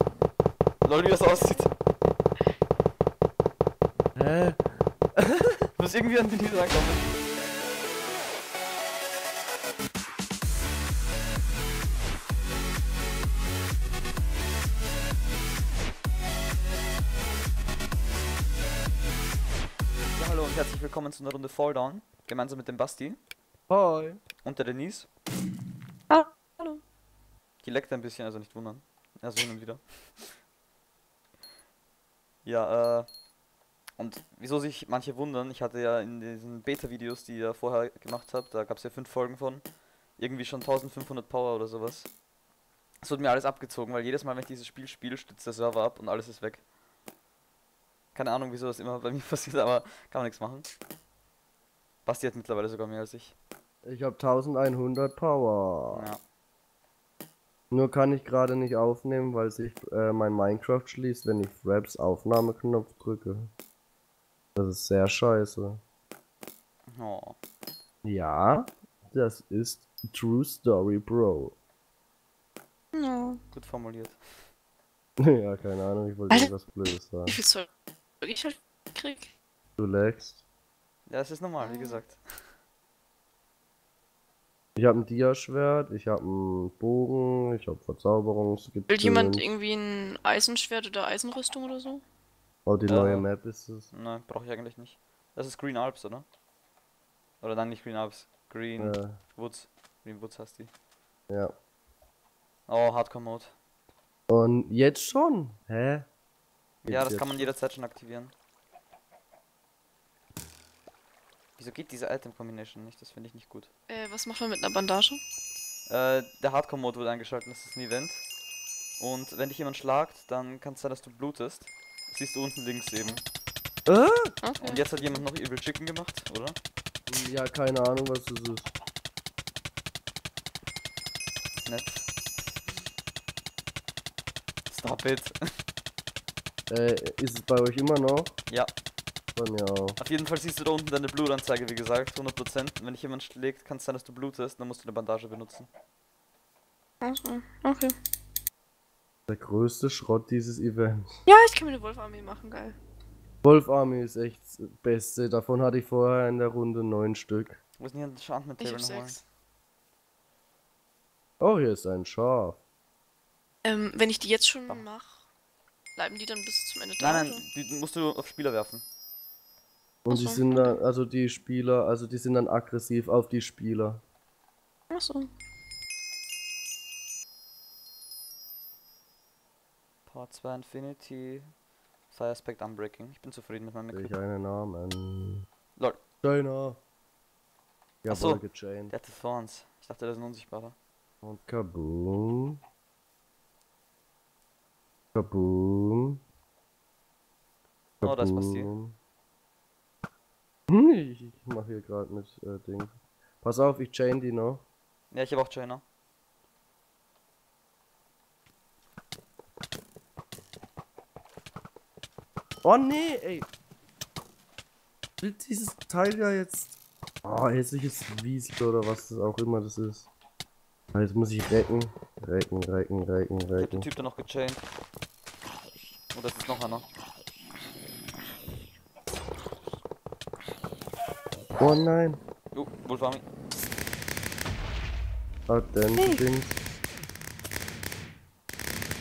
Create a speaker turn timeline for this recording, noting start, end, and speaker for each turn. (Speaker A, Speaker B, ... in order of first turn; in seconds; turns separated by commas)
Speaker A: 0.8-1.7, Speaker B: 4.2-5.7, Speaker A: 5.8-7.1, Speaker A: 20.1-23.2, Speaker B: 23.7-24.2, Speaker A: 24.4-25.1, Speaker C: 26.1-26.8, Speaker A: 27.6-30.3, Speaker A: 32.5-33.1, Speaker A: 34.0-39.6, Speaker A: 40.2-42.1, Speaker A: 43.0-46.6, Speaker A: 48.1-50.7, Speaker A: 52.1-53.4, Speaker B: 53.9-56.1, Speaker A: 55.9-56.2, Speaker B: 57.7-63.5, Speaker B: 64.6-65.8, Speaker A: 66.9-67.4, Speaker B: 68.0-71.5, Speaker C: 72.9-73.4, Speaker A: 73.5-74.2, Speaker B: 75.2-77.4, Speaker C: 77.3-77.7, Speaker C: 78.2-79.3, Speaker B: 79.8-80.4, Speaker A: 81.1-82.2, Speaker C: 81.6-82.0, Speaker B: 84.8-89.5, Speaker C: 88.9-92.0, Speaker B: 92.7-93.9, Speaker A: 92.9-93.3, Speaker A: 93.9-96.3, Speaker A: 97.4-100.7, Speaker B: 98.8-99.2, Speaker A: 102.7-103.5, Speaker B: 104.3-106.1, Speaker B: 106.8-107.5, Speaker A: 106.9-108.3, Speaker A: 111.6-113.7, Speaker C: 113.9-115.2, Speaker A: 115.9-118.2, Speaker A: 119.0-123.2, Speaker B: 123.9-124.4, Speaker C: 124.4-124.9, Speaker A: 124.6-126.6, Speaker B: 127.1-128.7, Speaker A: 131.7-132.0, Speaker A: 134.7-135.4, Speaker B: 136.7-138.4, Speaker B: 139.4-140.0, Speaker A: 140.0-145.7, Speaker C: 147.0-147.9, Speaker B: 149.3-151.1, Speaker C: 151.3-152.8, Speaker B: 153.4-157.6, Speaker A: 157.8-159.2, Speaker C: 158.6-159.2, Speaker B: 161.4-162.6, Speaker C: 163.7-165.3, Speaker C: 166.0-167.4, Speaker A: 167.0-168.8, Speaker B: 170.1-174.0, Speaker C: 170.1-170.8, Speaker C: 174.9-175.3, Speaker A: 180.1-181.5, Speaker A: 182.1-184.1, Speaker B: 183.9-185.5, Speaker B: 186.2-186.8, Speaker B: 188.0-188.9, Speaker A: 188.1-190.8, Speaker B: 191.2-192.6, Speaker B: 195.1-196.2, Speaker A: 198.0-198.7, Speaker B: 198.0-199.0, Speaker B: 200.7-204.6, Speaker A: 205.1-205.8, Speaker B: 212.6-213.5, Speaker B: 215.2-220.1, Speaker B: 220.9-223.9, Speaker A: 223.6-224.6, Speaker A: 226.1-226.9, Speaker B: 231.6-232.2, Speaker A: 232.5-233.2, Speaker B: 235.5-236.6, Speaker C: 236.0-236.2